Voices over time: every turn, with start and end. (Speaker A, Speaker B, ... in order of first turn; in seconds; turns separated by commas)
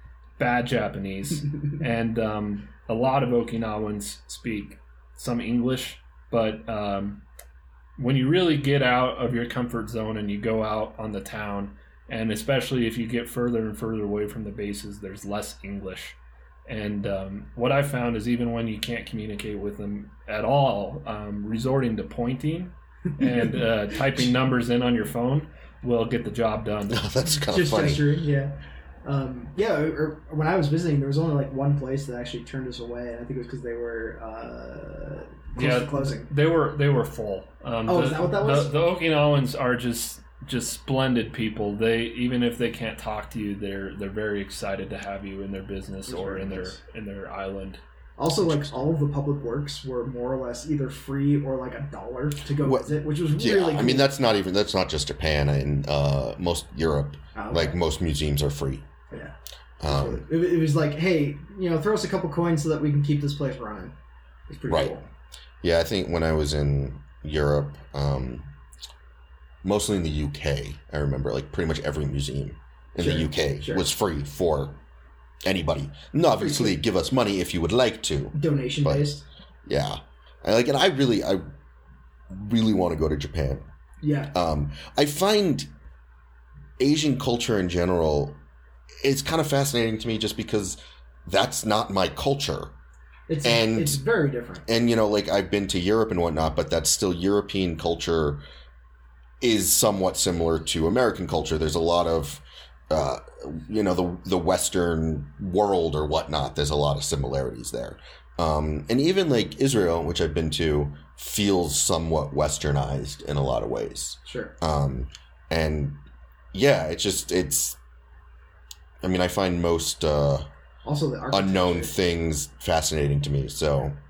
Speaker A: 0.4-7.2, Speaker A: 8.0-27.1, Speaker B: 26.9-28.1, Speaker C: 27.5-36.3, Speaker A: 35.5-47.8, Speaker C: 37.9-38.7, Speaker C: 46.1-46.8, Speaker C: 48.2-54.1, Speaker B: 52.6-58.8, Speaker C: 57.3-57.8, Speaker C: 59.1-59.3, Speaker B: 59.8-60.2, Speaker C: 59.9-63.9, Speaker C: 64.5-65.0, Speaker B: 64.7-65.0, Speaker B: 65.6-68.5, Speaker B: 69.6-74.8, Speaker C: 73.0-73.8, Speaker B: 75.4-79.1, Speaker C: 76.3-76.8, Speaker C: 78.3-79.2, Speaker B: 79.7-81.4, Speaker B: 82.3-83.6, Speaker C: 84.0-84.3, Speaker B: 84.3-85.7, Speaker B: 86.8-88.4, Speaker B: 89.0-92.7, Speaker C: 93.3-94.6, Speaker B: 93.4-94.0, Speaker B: 94.7-98.4, Speaker B: 99.4-116.0, Speaker C: 114.2-114.5, Speaker B: 116.5-117.8, Speaker B: 119.0-120.5, Speaker C: 120.8-121.9, Speaker B: 121.3-124.0